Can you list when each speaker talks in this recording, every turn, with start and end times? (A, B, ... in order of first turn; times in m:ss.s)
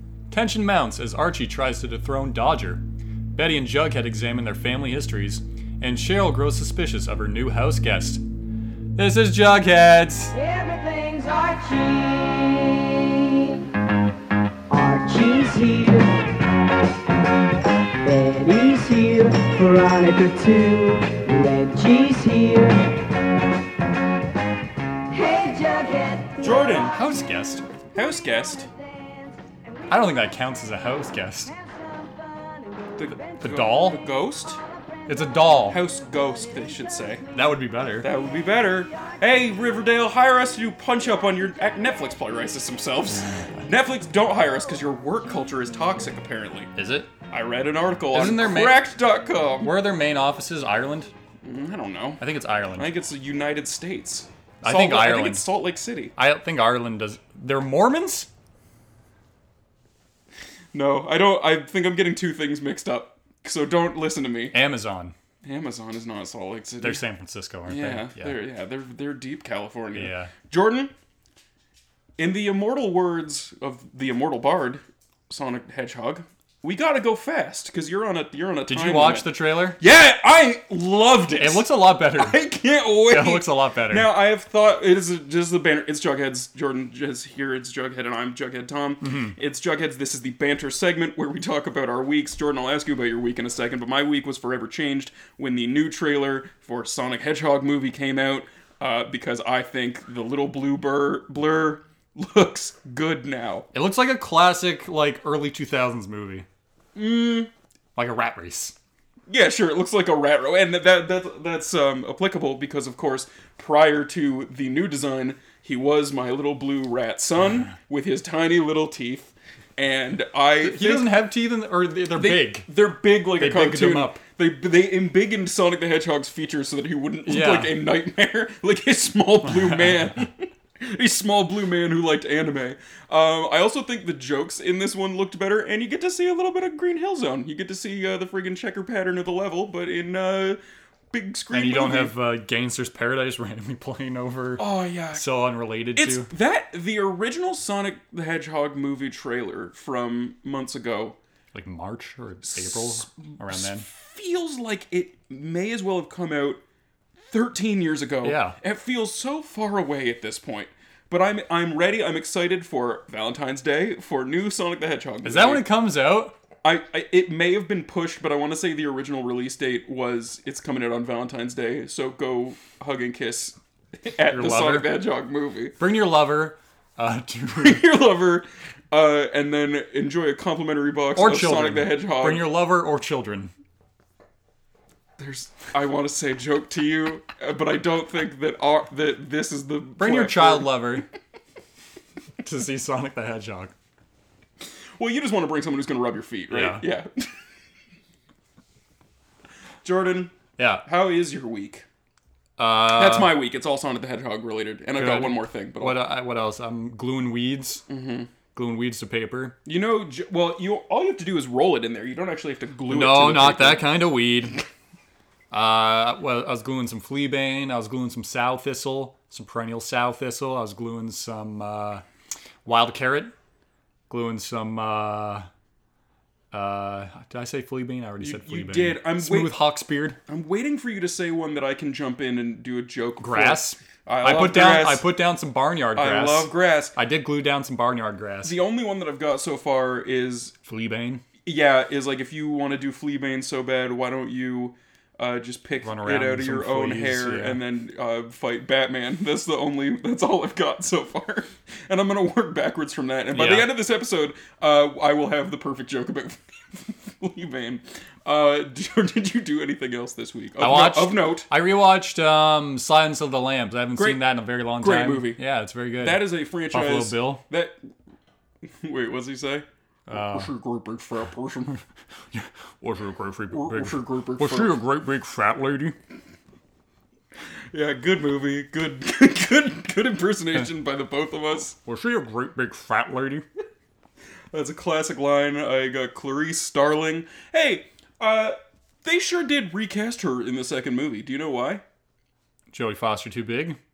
0:00.3-0:02.8 A
0:03.3-0:08.2 A
0:09.0-0:10.4 A
0:10.3-0:13.6 B
0:14.7-0:16.2 B
0:18.0-0:22.9 B
0:25.1-0:26.8 B
0:26.4-0:27.0 C
0:26.9-0:27.6 A
0:27.9-0:28.7 C
0:29.9-0:31.5 A
0:33.0-0:34.6 C
0:33.4-0:34.0 A
0:35.1-0:35.8 A
0:35.7-0:37.2 C
0:37.3-0:38.1 A
0:38.0-0:46.7 C
0:46.8-0:47.1 A
0:47.3-0:49.7 C
0:48.1-0:48.8 A
0:49.6-0:51.1 A
0:51.4-0:52.2 C
0:52.2-0:52.9 A
0:52.8-0:56.2 C
0:54.6-0:55.5 A
0:56.2-0:58.3 A
1:00.7-1:04.6 C
1:04.5-1:05.1 A
1:05.4-1:07.0 C
1:06.8-1:08.4 A
1:07.7-1:10.9 C
1:10.0-1:10.3 A
1:12.2-1:43.7 C
1:18.7-1:19.8 A
1:21.3-1:22.4 A
1:23.1-1:24.1 A
1:29.0-1:29.4 A
1:43.7-1:46.5 A
1:47.0-1:47.5 C
1:48.0-1:48.8 A
1:49.3-2:01.2 C
2:00.6-2:02.7 A
2:02.2-2:20.6 C
2:03.4-2:04.2 A
2:07.3-2:07.8 A
2:21.1-2:22.1 C
2:21.5-2:26.3 A
2:24.6-2:25.2 C
2:26.0-2:31.2 C
2:31.5-2:33.9 A
2:32.4-2:36.6 C
2:37.3-2:45.7 C
2:38.2-2:38.6 A
2:45.2-2:46.3 A
2:46.6-2:55.8 C
2:54.3-2:54.9 A
2:55.8-2:57.8 A
2:57.6-3:02.5 C
3:01.2-3:03.5 A
3:05.2-3:10.8 C
3:10.0-3:11.1 A
3:12.4-3:13.7 A
3:15.0-3:17.3 C
3:16.5-3:16.8 A
3:19.8-3:21.9 C
3:20.6-3:20.8 A
3:22.6-3:23.4 A
3:22.9-3:26.0 C
3:25.0-3:27.8 A
3:27.9-3:28.3 C
3:28.5-3:29.6 A
3:29.6-3:33.9 C
3:32.9-3:34.6 A
3:35.5-3:42.0 A
3:42.6-3:43.3 A
3:44.1-3:45.5 A
3:46.5-3:50.2 A
3:48.2-3:49.5 C
3:50.3-3:55.0 C
3:53.2-3:58.6 A
3:56.0-3:57.0 C
3:58.4-4:00.6 C
4:00.6-4:01.2 A
4:01.4-4:21.5 C
4:05.8-4:07.6 A
4:13.3-4:13.7 A
4:20.6-4:27.4 A
4:24.0-4:25.4 C
4:26.0-4:27.8 C
4:28.8-4:31.8 C
4:30.1-4:30.5 A
4:32.3-4:36.0 A
4:33.5-4:34.8 C
4:37.7-4:41.8 C
4:41.8-4:43.4 A
4:44.5-4:51.8 C
4:52.7-4:53.8 A